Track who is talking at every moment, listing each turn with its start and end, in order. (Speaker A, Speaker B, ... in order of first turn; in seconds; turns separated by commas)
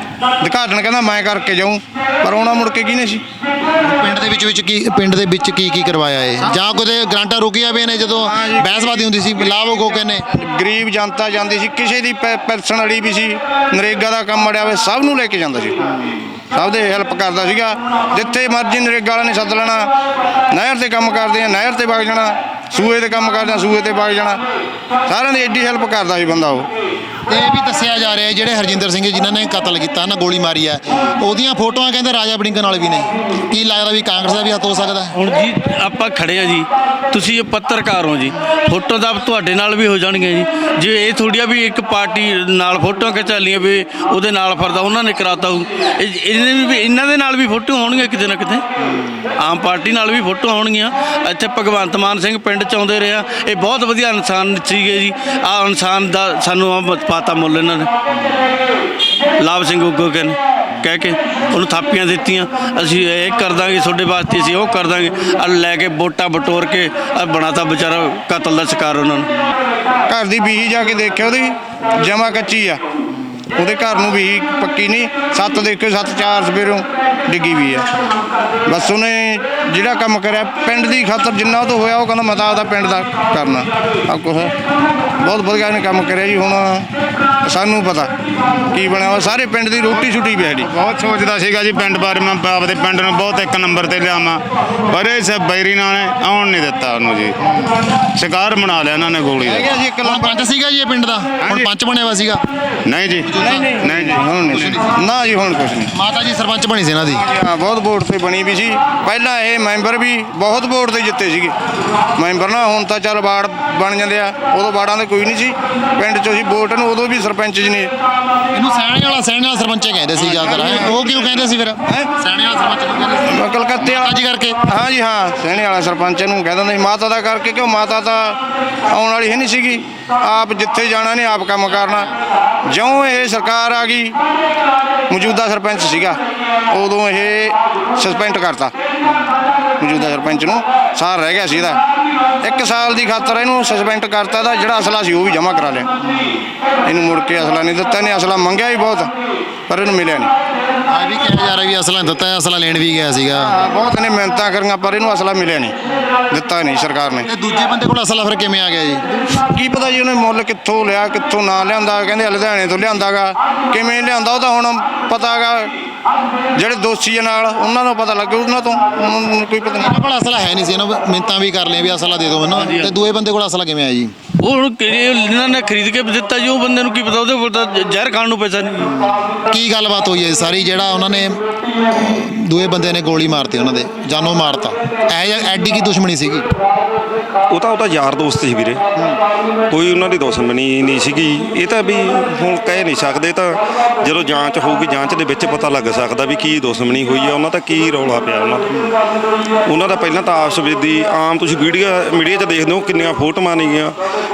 Speaker A: 0.4-3.2, Speaker B: 3.8-10.2, Speaker A: 8.2-8.9, Speaker A: 10.3-19.9, Speaker A: 20.5-24.4, Speaker A: 25.1-26.7, Speaker B: 27.3-35.1, Speaker C: 35.1-48.6, Speaker B: 48.9-49.2, Speaker C: 49.4-57.9, Speaker C: 59.4-69.3, Speaker A: 70.1-72.8, Speaker A: 73.5-77.9, Speaker A: 78.7-84.5, Speaker A: 85.2-86.9, Speaker A: 87.4-88.1, Speaker A: 88.7-90.7, Speaker D: 90.6-97.3, Speaker D: 98.1-99.7, Speaker A: 99.4-100.4, Speaker B: 100.0-102.4, Speaker D: 101.4-101.7, Speaker D: 102.8-104.3, Speaker B: 103.2-103.8, Speaker A: 103.4-105.9, Speaker B: 104.5-105.0, Speaker B: 105.9-107.2, Speaker A: 107.1-111.5, Speaker A: 112.2-117.9, Speaker B: 118.5-124.6, Speaker A: 120.1-121.2, Speaker A: 123.2-132.1, Speaker A: 132.7-134.1, Speaker A: 135.1-138.7, Speaker A: 139.8-141.8, Speaker A: 142.4-145.9, Speaker B: 146.0-146.4, Speaker A: 146.8-149.1, Speaker A: 149.7-150.3, Speaker B: 150.9-153.6, Speaker A: 153.3-155.7, Speaker A: 156.3-157.3, Speaker B: 157.2-159.0, Speaker A: 159.3-165.7, Speaker A: 166.6-169.9, Speaker B: 169.8-174.1, Speaker C: 172.7-172.9, Speaker C: 174.4-178.9, Speaker B: 178.8-186.4, Speaker E: 187.5-188.8, Speaker E: 189.7-198.9, Speaker E: 199.7-203.9